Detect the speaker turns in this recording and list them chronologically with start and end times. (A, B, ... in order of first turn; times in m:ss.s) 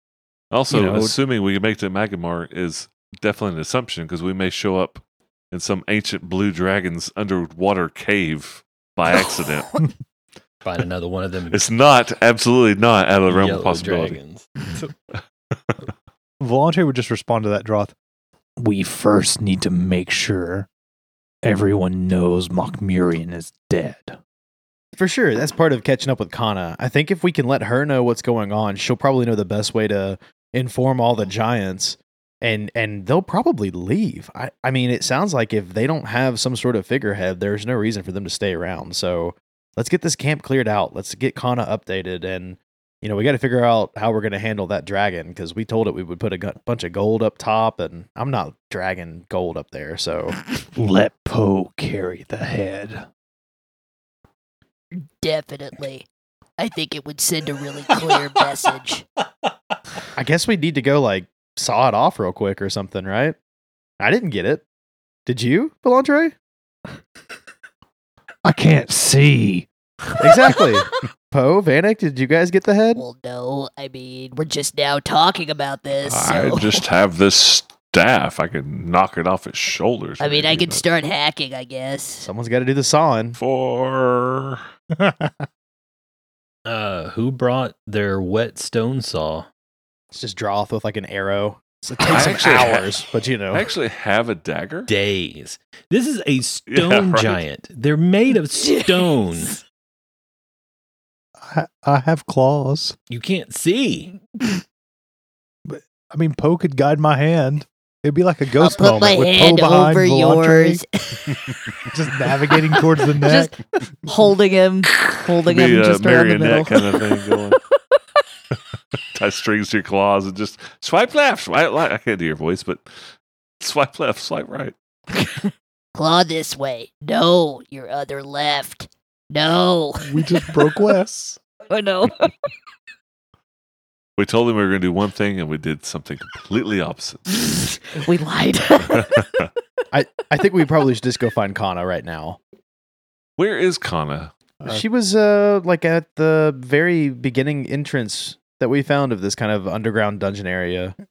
0:00.5-0:09.7 A
0:00.7-0:01.2 B
0:10.6-0:11.6 C
0:11.5-0:14.2 A
0:13.3-0:14.6 C
0:16.4-0:17.9 D
0:18.6-0:20.7 D
0:21.4-0:24.2 D
0:25.0-0:50.4 B
0:50.8-0:53.1 D
0:54.9-0:56.1 E
0:56.6-0:59.0 E
1:00.2-1:03.4 B
1:04.0-1:04.6 B
1:05.3-1:06.3 B
1:08.4-1:09.7 D
1:10.2-1:13.0 B
1:13.0-1:16.8 E
1:16.0-1:20.8 A
1:20.2-1:22.3 E
1:22.2-1:23.4 B
1:23.4-1:24.6 A
1:24.9-1:25.5 D
1:26.7-1:29.5 C
1:30.1-1:33.7 B
1:32.1-1:33.0 A
1:33.5-1:34.9 A
1:34.9-1:39.6 C
1:36.7-1:37.4 A
1:41.4-1:43.0 D
1:43.1-1:44.1 C
1:45.6-1:50.8 D
1:48.6-1:51.3 E
1:51.9-1:53.5 D
1:53.2-1:57.5 F
1:55.0-1:57.6 A
1:59.1-2:02.9 A
2:03.6-2:04.8 A
2:06.0-2:10.1 E
2:10.0-2:11.4 D
2:11.7-2:12.3 E
2:14.2-2:17.6 A
2:18.0-2:19.3 F
2:18.9-2:19.5 A
2:19.9-2:22.4 B
2:23.4-2:24.3 A
2:24.7-2:31.0 B